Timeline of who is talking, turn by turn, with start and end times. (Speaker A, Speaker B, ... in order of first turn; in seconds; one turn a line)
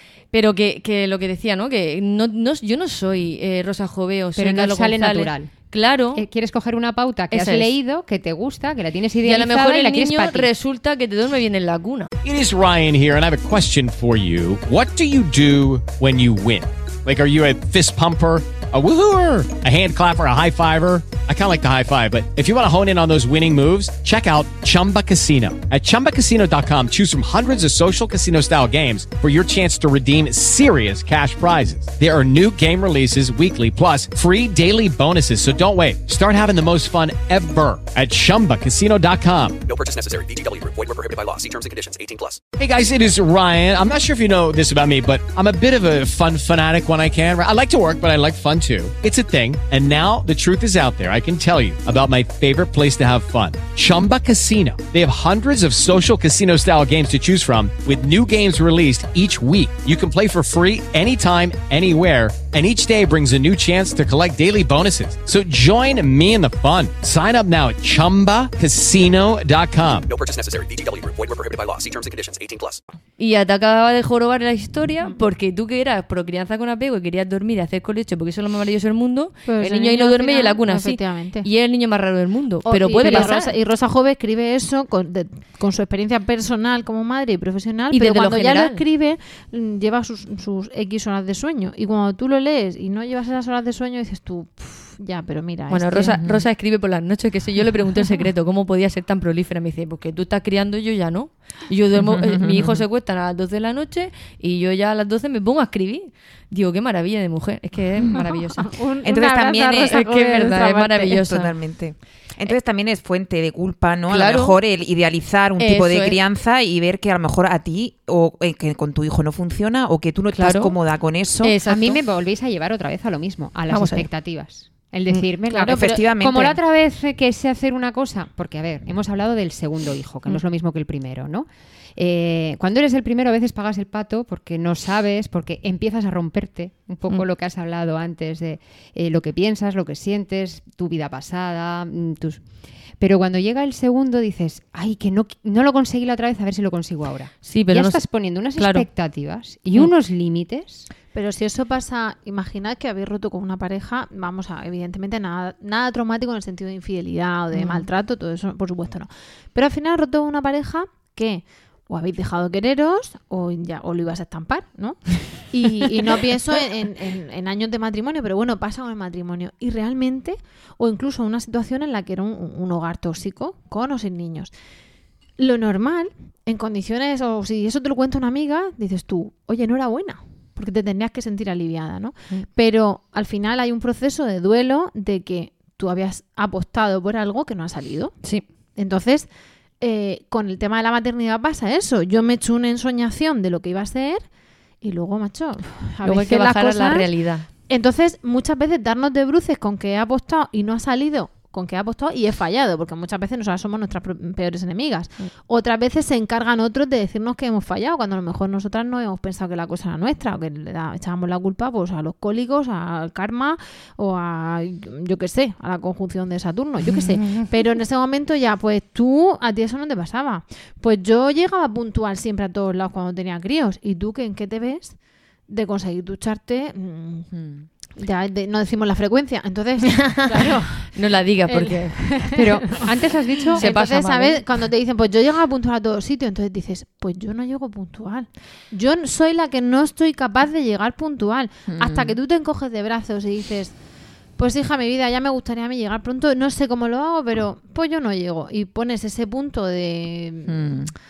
Speaker A: 0.3-6.2
Speaker B: 4.4-5.5
Speaker B: 6.2-10.5
Speaker A: 7.3-7.8
Speaker A: 9.2-12.1
Speaker C: 12.2-39.6
Speaker D: 39.6-42.4
Speaker C: 42.6-70.1
Speaker D: 70.1-72.8
Speaker A: 73.2-83.5
Speaker E: 79.5-81.5
Speaker E: 82.7-96.2
Speaker A: 87.9-88.8
Speaker A: 95.7-108.8
Speaker F: 96.1-96.5
Speaker F: 102.0-102.9
Speaker E: 108.1-111.2
Speaker F: 109.0-121.6
Speaker A: 109.7-111.5
Speaker A: 114.1-114.5
Speaker A: 115.6-116.2
Speaker A: 120.4-122.0
Speaker B: 121.7-142.4
Speaker A: 123.7-124.1
Speaker F: 125.5-126.6
Speaker B: 143.0-150.9
Speaker A: 147.4-148.9
Speaker E: 151.1-174.5
Speaker A: 157.5-157.9
Speaker E: 175.4-188.2
Speaker E: 188.8-194.3
Speaker E: 194.8-227.3
Speaker A: 196.0-197.5
Speaker A: 217.2-217.5
Speaker E: 227.9-232.8
Speaker A: 230.9-232.2
Speaker B: 232.3-233.6
Speaker E: 233.5-250.8
Speaker A: 233.6-234.4
Speaker F: 241.7-242.2
Speaker F: 250.5-250.9